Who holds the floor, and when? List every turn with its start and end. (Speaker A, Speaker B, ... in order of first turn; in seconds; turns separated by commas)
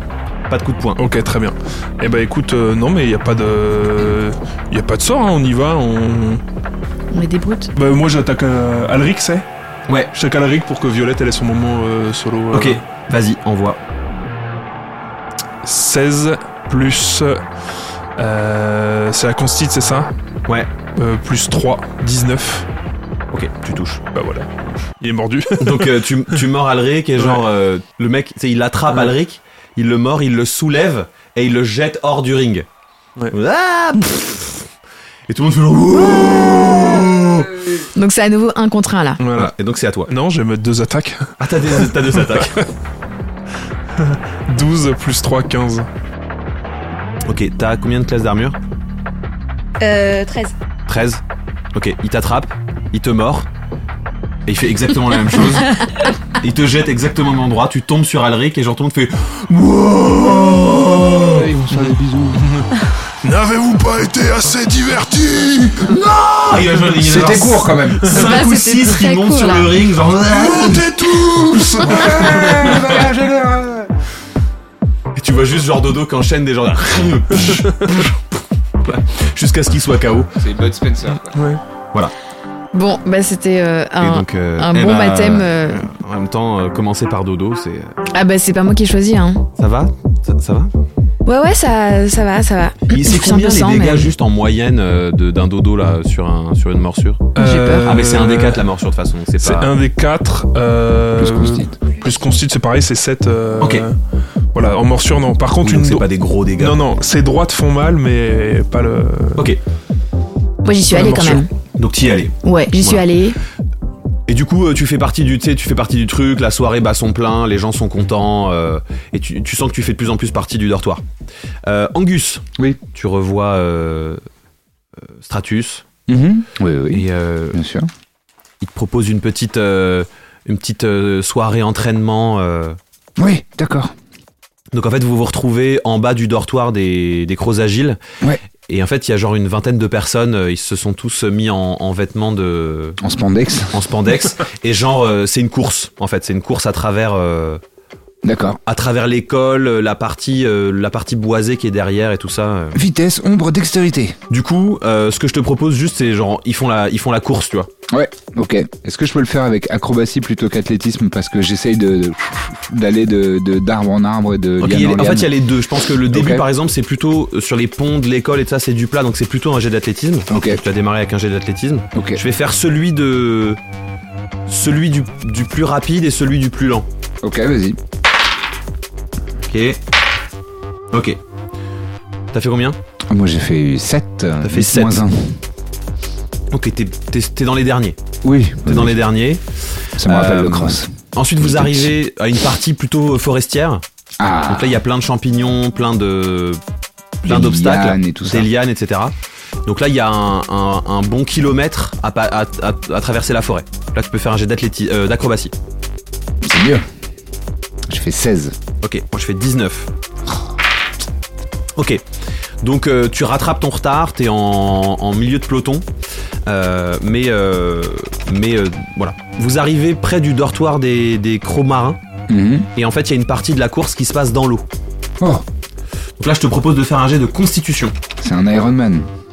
Speaker A: 0.5-1.0, Speaker B: 1.0-6.4, Speaker C: 7.1-7.7, Speaker B: 7.7-9.5, Speaker A: 9.9-10.1, Speaker B: 10.1-12.8, Speaker A: 12.5-13.8, Speaker B: 15.6-17.4, Speaker B: 18.2-20.1, Speaker B: 21.0-22.7, Speaker A: 23.3-24.0, Speaker B: 24.1-24.5, Speaker B: 25.0-26.0, Speaker A: 25.6-32.7, Speaker B: 27.2-27.4, Speaker A: 33.3-34.7, Speaker A: 35.3-37.8, Speaker C: 38.0-39.2, Speaker B: 39.2-39.5, Speaker A: 39.3-40.1, Speaker B: 40.1-42.6, Speaker A: 41.4-42.6, Speaker B: 44.0-45.9, Speaker A: 47.3-48.6, Speaker C: 49.8-50.5, Speaker A: 50.9-51.2, Speaker A: 51.7-53.5, Speaker A: 54.5-61.5, Speaker D: 61.2-62.5, Speaker B: 62.4-66.0, Speaker A: 65.8-73.0, Speaker D: 67.0-68.1, Speaker C: 68.1-69.8, Speaker B: 70.3-73.0, Speaker D: 71.6-73.9, Speaker A: 75.2-78.2, Speaker B: 77.4-77.8, Speaker A: 78.8-80.4, Speaker D: 80.4-81.4, Speaker B: 81.3-81.6, Speaker C: 82.7-85.8, Speaker A: 84.0-88.0, Speaker C: 88.1-89.5, Speaker A: 89.6-90.7, Speaker C: 91.2-94.1, Speaker A: 92.9-97.3, Speaker C: 97.4-98.0, Speaker B: 97.4-98.7, Speaker A: 97.8-99.7, Speaker B: 99.4-103.9, Speaker D: 101.2-101.8, Speaker A: 103.6-103.9, Speaker B: 104.5-109.5, Speaker A: 105.6-106.8, Speaker C: 110.7-111.5, Speaker A: 110.9-113.0, Speaker C: 112.4-113.4, Speaker A: 114.3-121.0, Speaker A: 121.7-124.2, Speaker A: 125.2-125.8, Speaker D: 126.1-127.9, Speaker A: 126.9-127.6, Speaker A: 128.6-132.8, Speaker D: 133.2-133.9, Speaker A: 134.7-138.0, Speaker A: 138.7-143.0, Speaker D: 143.0-143.8, Speaker A: 143.7-147.6, Speaker D: 148.2-148.6, Speaker A: 148.7-152.8, Speaker D: 152.7-154.2, Speaker A: 154.3-157.7, Speaker D: 157.9-165.3, Speaker A: 164.6-173.6, Speaker D: 165.9-166.5, Speaker D: 170.3-170.6, Speaker D: 171.9-172.2, Speaker A: 174.5-176.9, Speaker D: 177.2-177.8, Speaker A: 179.4-179.8, Speaker A: 180.9-181.2, Speaker A: 182.3-182.8, Speaker D: 183.1-185.4, Speaker A: 184.4-185.0, Speaker A: 186.5-188.0, Speaker D: 188.2-189.0, Speaker A: 188.7-189.4, Speaker D: 190.0-192.0, Speaker A: 190.0-193.8, Speaker D: 194.2-194.8, Speaker A: 194.5-196.6, Speaker A: 197.2-205.5, Speaker D: 197.2-198.5, Speaker D: 206.4-206.9, Speaker D: 207.9-208.6, Speaker A: 208.8-209.9, Speaker A: 211.8-212.0, Speaker A: 212.6-215.8, Speaker A: 216.5-222.0, Speaker D: 222.3-222.7, Speaker A: 222.8-224.7, Speaker D: 225.2-225.4, Speaker A: 226.2-228.0, Speaker D: 228.2-229.1